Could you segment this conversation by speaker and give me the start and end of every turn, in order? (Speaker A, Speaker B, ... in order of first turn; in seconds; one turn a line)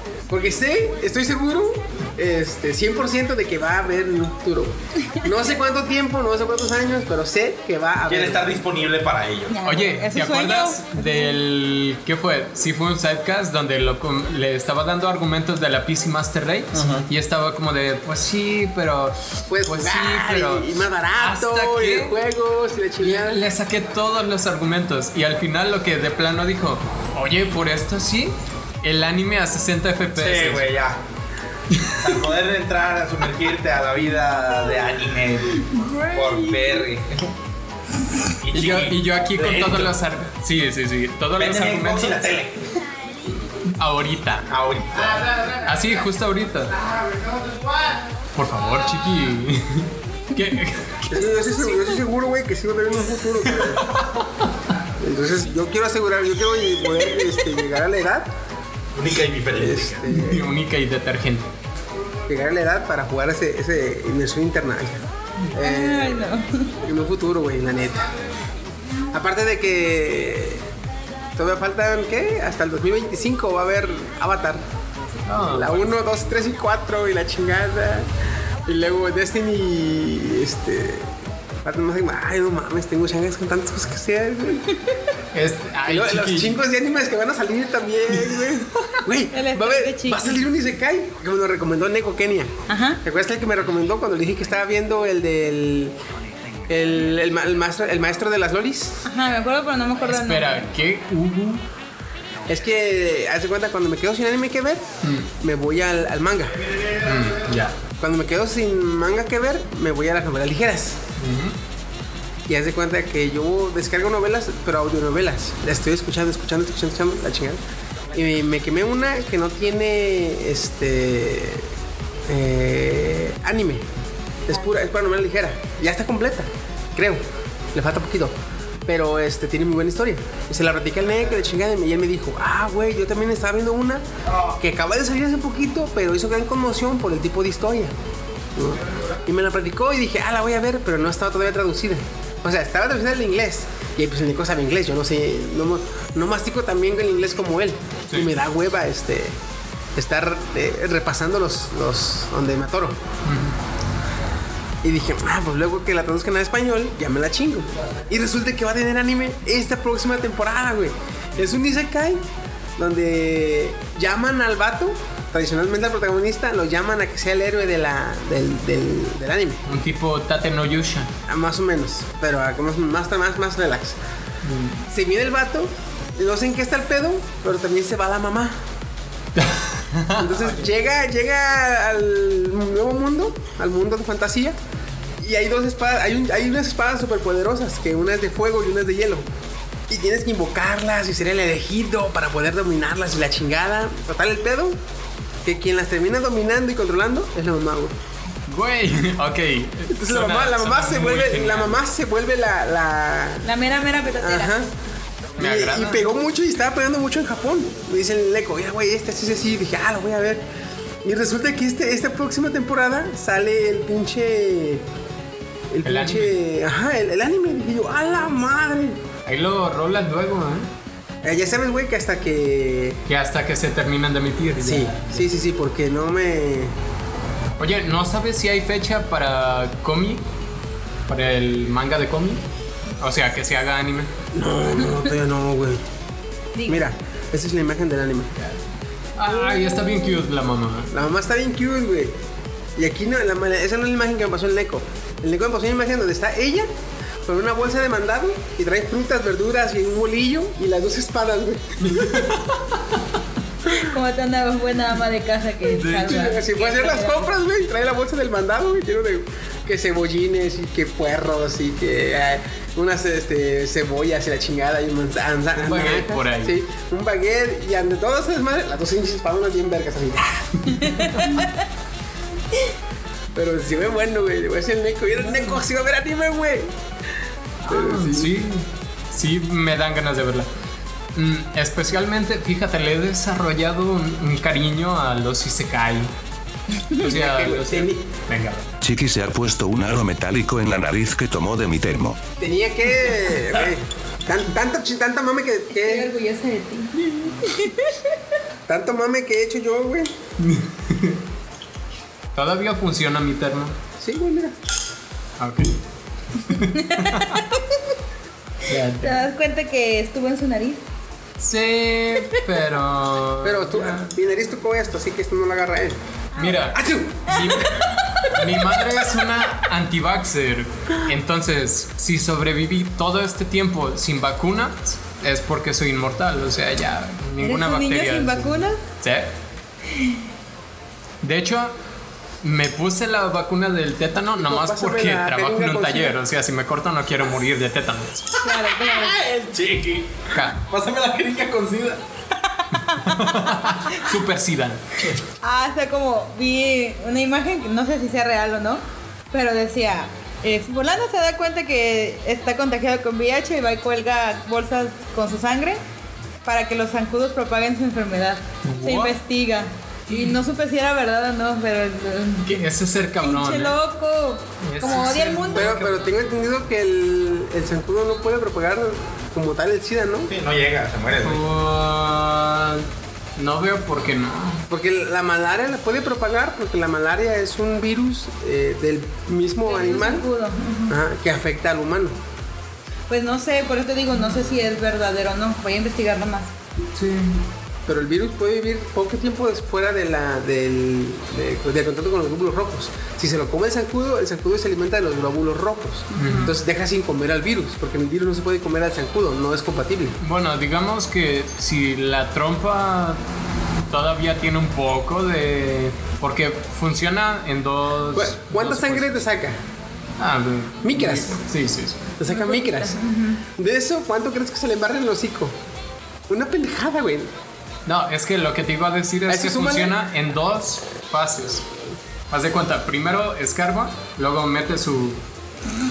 Speaker A: 0.3-8.6
Speaker B: 8.1-9.6
Speaker C: 9.5-11.4
Speaker D: 9.6-22.1
Speaker B: 16.7-17.1
Speaker A: 19.5-23.5
Speaker D: 23.0-30.7
Speaker B: 30.2-31.0
Speaker D: 31.7-32.0
Speaker B: 32.0-37.3
Speaker C: 35.7-36.8
Speaker B: 38.4-39.9
Speaker D: 38.5-42.2
Speaker B: 41.4-42.7
Speaker D: 43.8-44.5
Speaker B: 44.5-45.4
Speaker D: 45.4-46.8
Speaker D: 48.4-51.5
Speaker A: 51.1-53.9
Speaker D: 53.5-54.5
Speaker A: 55.0-58.3
Speaker B: 59.0-60.1
Speaker A: 59.6-60.4
Speaker D: 60.1-61.5
Speaker A: 62.3-66.3
Speaker C: 65.6-66.7
Speaker A: 66.8-68.1
Speaker A: 69.1-70.7
Speaker A: 71.4-74.6
Speaker D: 75.2-76.0
Speaker A: 75.5-78.1
Speaker A: 78.7-81.1
Speaker A: 81.6-84.8
Speaker D: 85.3-86.6
Speaker A: 85.8-96.0
Speaker D: 88.1-88.9
Speaker C: 89.3-90.4
Speaker C: 92.7-93.0
Speaker A: 96.7-99.0
Speaker C: 99.0-100.7
Speaker D: 100.1-101.6
Speaker A: 102.5-104.8
Speaker D: 105.0-105.3
Speaker A: 105.4-106.6
Speaker D: 107.0-107.8
Speaker A: 108.0-111.0
Speaker D: 111.2-111.5
Speaker A: 112.5-117.6
Speaker A: 118.1-121.7
Speaker A: 122.3-123.9
Speaker A: 124.5-127.2
Speaker A: 127.7-128.3
Speaker A: 128.9-134.1
Speaker A: 134.6-137.9
Speaker A: 138.6-149.4
Speaker A: 150.0-153.0
Speaker D: 153.2-153.6
Speaker A: 154.8-162.2
Speaker A: 162.8-169.6
Speaker D: 169.7-171.1
Speaker A: 171.3-174.0
Speaker D: 174.4-174.8
Speaker A: 174.9-178.6
Speaker D: 179.4-180.7
Speaker A: 180.2-184.6
Speaker A: 185.2-189.3
Speaker A: 189.9-194.8
Speaker A: 195.4-197.9
Speaker D: 198.5-201.8
Speaker A: 199.9-203.5
Speaker C: 203.4-204.5
Speaker A: 204.2-204.7
Speaker D: 205.4-206.1
Speaker A: 205.4-210.4
Speaker A: 211.0-214.8
Speaker A: 215.7-219.0
Speaker D: 215.8-216.3
Speaker D: 219.3-220.7
Speaker A: 221.2-223.0
Speaker D: 223.1-225.3
Speaker A: 224.6-226.8
Speaker D: 227.6-230.2
Speaker D: 231.1-232.4
Speaker D: 233.0-234.1
Speaker A: 234.3-235.8
Speaker C: 236.6-236.8
Speaker A: 236.7-238.3
Speaker D: 239.2-240.9
Speaker C: 239.4-240.1
Speaker A: 240.9-242.2
Speaker A: 242.8-246.7
Speaker A: 247.2-252.3
Speaker D: 251.8-253.0
Speaker C: 253.7-257.3
Speaker D: 255.7-256.3
Speaker A: 256.1-270.8
Speaker D: 265.6-266.6
Speaker D: 270.7-271.4
Speaker C: 271.2-271.5
Speaker A: 273.4-276.7
Speaker D: 277.6-280.5
Speaker A: 277.7-278.3
Speaker D: 281.1-286.1
Speaker D: 286.9-288.7
Speaker A: 287.0-288.0
Speaker E: 288.8-292.2
Speaker A: 292.4-296.1
Speaker C: 295.8-298.1
Speaker A: 298.7-300.1
Speaker D: 300.4-301.2
Speaker D: 302.4-303.8
Speaker A: 304.0-304.6
Speaker D: 305.4-305.8
Speaker D: 306.4-307.4
Speaker C: 306.7-307.6
Speaker D: 308.7-309.2
Speaker C: 309.0-310.8
Speaker D: 311.4-314.0
Speaker A: 313.4-316.0
Speaker C: 316.4-316.7
Speaker D: 316.4-329.3
Speaker A: 316.7-317.4
Speaker C: 317.3-318.3
Speaker C: 327.4-328.8
Speaker D: 331.2-331.7
Speaker D: 332.4-338.3
Speaker A: 334.4-336.2
Speaker C: 338.4-339.2
Speaker B: 338.4-342.0
Speaker D: 340.3-340.6
Speaker D: 342.9-344.8
Speaker C: 345.4-355.8
Speaker C: 356.4-362.6
Speaker D: 358.6-359.2
Speaker D: 360.1-360.4
Speaker D: 362.4-363.8
Speaker C: 363.2-365.7
Speaker D: 364.6-366.1
Speaker A: 365.5-370.3
Speaker B: 370.3-371.4
Speaker D: 371.2-374.6
Speaker A: 374.7-380.3
Speaker C: 379.7-380.9
Speaker A: 380.9-382.1
Speaker C: 383.1-386.5
Speaker D: 387.0-387.4
Speaker A: 387.9-400.2
Speaker C: 396.1-396.5
Speaker D: 396.2-396.5
Speaker D: 400.2-403.2
Speaker D: 403.9-409.2
Speaker A: 408.1-409.6
Speaker D: 410.2-412.1
Speaker A: 410.8-411.4
Speaker A: 412.2-413.0
Speaker C: 412.2-413.4
Speaker A: 413.5-415.6
Speaker A: 416.3-417.3
Speaker D: 417.9-421.7
Speaker A: 419.3-420.0
Speaker D: 422.3-425.2